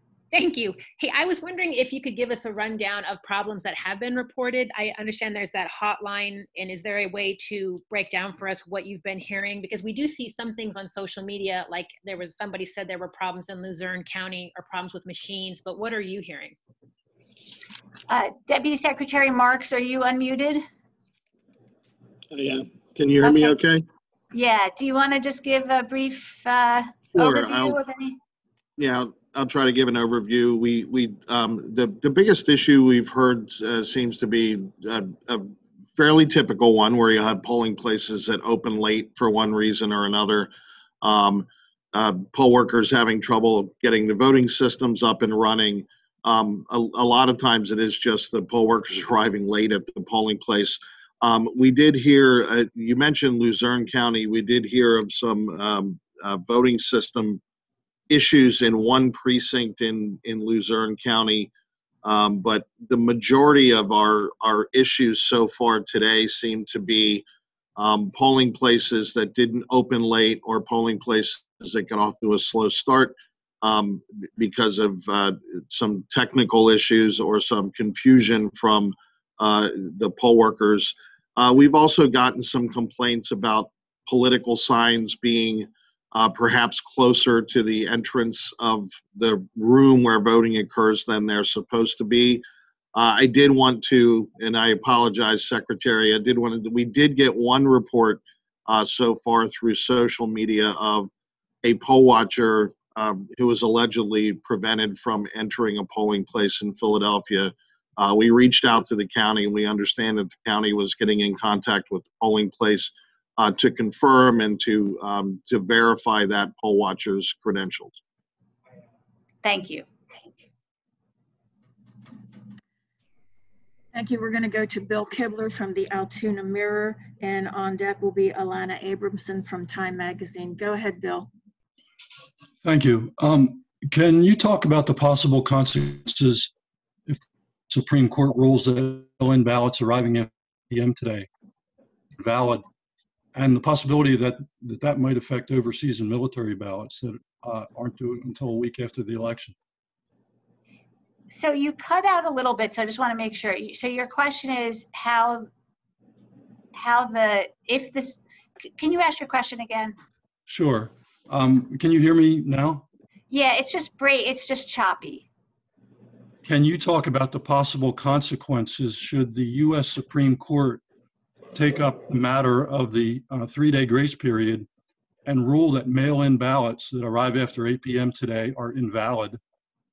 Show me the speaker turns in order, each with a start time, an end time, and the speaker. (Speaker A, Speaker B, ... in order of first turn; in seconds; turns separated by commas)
Speaker A: 0.3-16.5, Speaker B: 18.1-20.6, Speaker C: 22.3-23.8, Speaker B: 23.2-23.6, Speaker B: 24.3-28.2, Speaker C: 27.1-27.8, Speaker C: 28.8-40.5, Speaker C: 41.0-57.4, Speaker C: 58.1-61.5, Speaker C: 62.0-67.2, Speaker C: 67.8-92.4, Speaker C: 92.9-101.1, Speaker C: 101.6-118.0, Speaker B: 119.4-119.8, Speaker D: 123.9-131.3, Speaker E: 132.6-136.5, Speaker E: 137.1-141.3, Speaker E: 142.2-142.6, Speaker E: 143.3-149.5, Speaker B: 151.3-155.5, Speaker B: 156.7-158.2, Speaker B: 158.8-159.9, Speaker E: 160.5-162.8, Speaker B: 163.3-165.3, Speaker E: 166.4-170.8, Speaker E: 171.5-174.7, Speaker E: 175.2-179.4